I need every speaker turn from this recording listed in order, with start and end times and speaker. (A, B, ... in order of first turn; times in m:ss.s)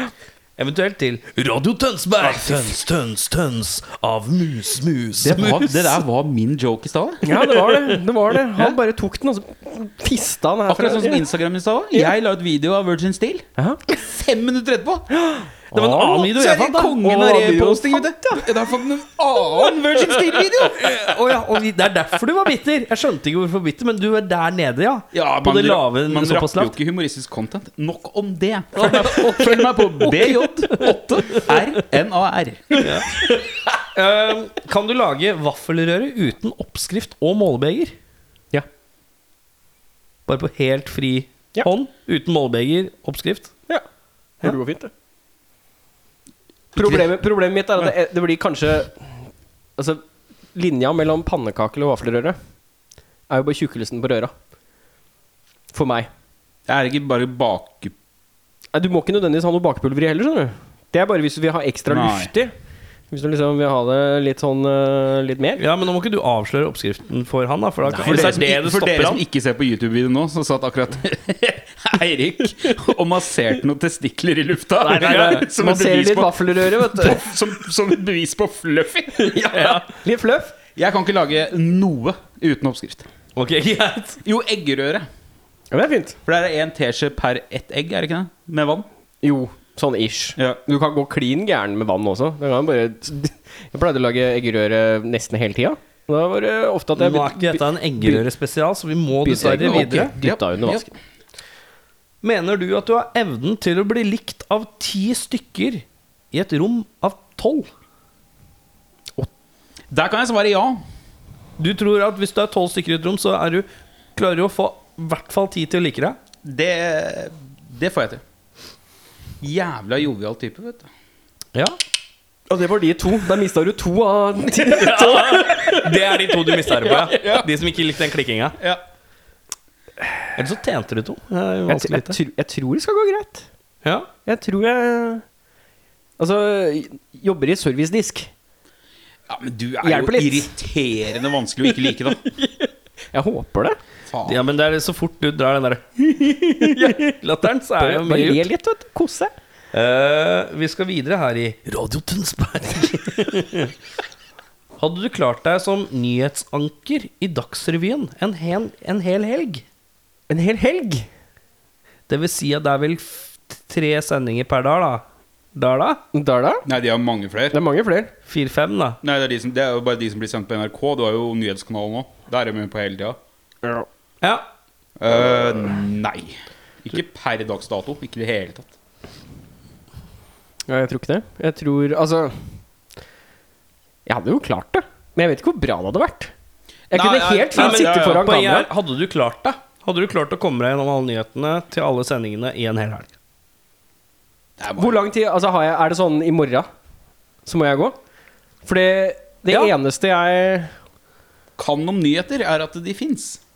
0:00.6-0:06.0 A
0:02.2-0:02.8 B
0:05.2-0:07.2 B
0:07.2-0:11.2 C
0:07.7-0:08.0 A
0:10.7-0:15.1 B
0:15.2-0:16.3 C
0:15.7-0:17.0 A
0:16.3-0:20.9 B
0:17.0-0:18.4 C
0:20.6-0:26.8 A
0:25.1-0:32.9 B
0:28.8-0:29.5 A
0:30.1-0:31.6 A
0:32.8-0:37.9 A
0:40.3-0:43.5 A
0:44.4-0:44.9 C
0:46.8-0:47.1 B
0:46.8-0:49.0 C
0:50.5-0:52.4 C
0:53.3-0:54.3 C
0:55.7-0:56.1 C
0:56.7-0:57.9 B
0:58.7-1:02.5 C
1:01.9-1:02.3 B
1:03.1-1:05.6 C
1:05.6-1:09.2 A
1:07.8-1:19.8 B
1:14.9-1:15.5 A
1:14.9-1:17.2 C
1:19.2-1:20.5 C
1:20.8-1:23.1 B
1:23.4-1:24.2 A
1:24.2-1:25.1 B
1:25.7-1:26.2 C
1:26.2-1:28.9 B
1:29.2-1:38.2 C
1:37.0-1:40.1 A
1:39.2-1:40.9 C
1:39.6-1:40.9 B
1:42.2-1:47.7 A
1:49.9-1:50.8 B
1:51.6-1:56.2 A
1:56.4-1:58.2 B
1:59.4-2:00.9 B
2:02.5-2:07.2 C
2:04.6-2:08.6 A
2:07.2-2:07.5 B
2:10.4-2:12.2 A
2:11.7-2:13.5 C
2:13.8-2:14.1 A
2:14.2-2:15.2 C
2:16.2-2:18.3 C
2:19.3-2:22.2 B
2:19.8-2:20.5 C
2:21.7-2:23.8 C
2:24.1-2:24.4 B
2:24.2-2:28.4 A
2:26.6-2:27.0 C
2:27.8-2:29.3 C
2:29.7-2:33.7 A
2:34.8-2:39.6 A
2:40.3-2:41.1 C
2:42.1-2:45.0 A
2:45.5-2:46.0 A
2:46.1-2:46.6 C
2:46.6-2:47.6 B
2:47.5-2:48.1 C
2:48.2-2:49.0 A
2:49.0-2:53.2 B
2:54.2-2:54.5 A
2:55.0-2:58.7 B
3:00.7-3:02.3 C
3:04.0-3:06.3 C
3:06.9-3:08.2 B
3:06.9-3:08.7 C
3:07.5-3:13.1 A
3:14.6-3:15.0 B
3:14.8-3:16.7 C
3:17.4-3:18.0 C
3:18.6-3:20.7 C
3:21.6-3:23.4 B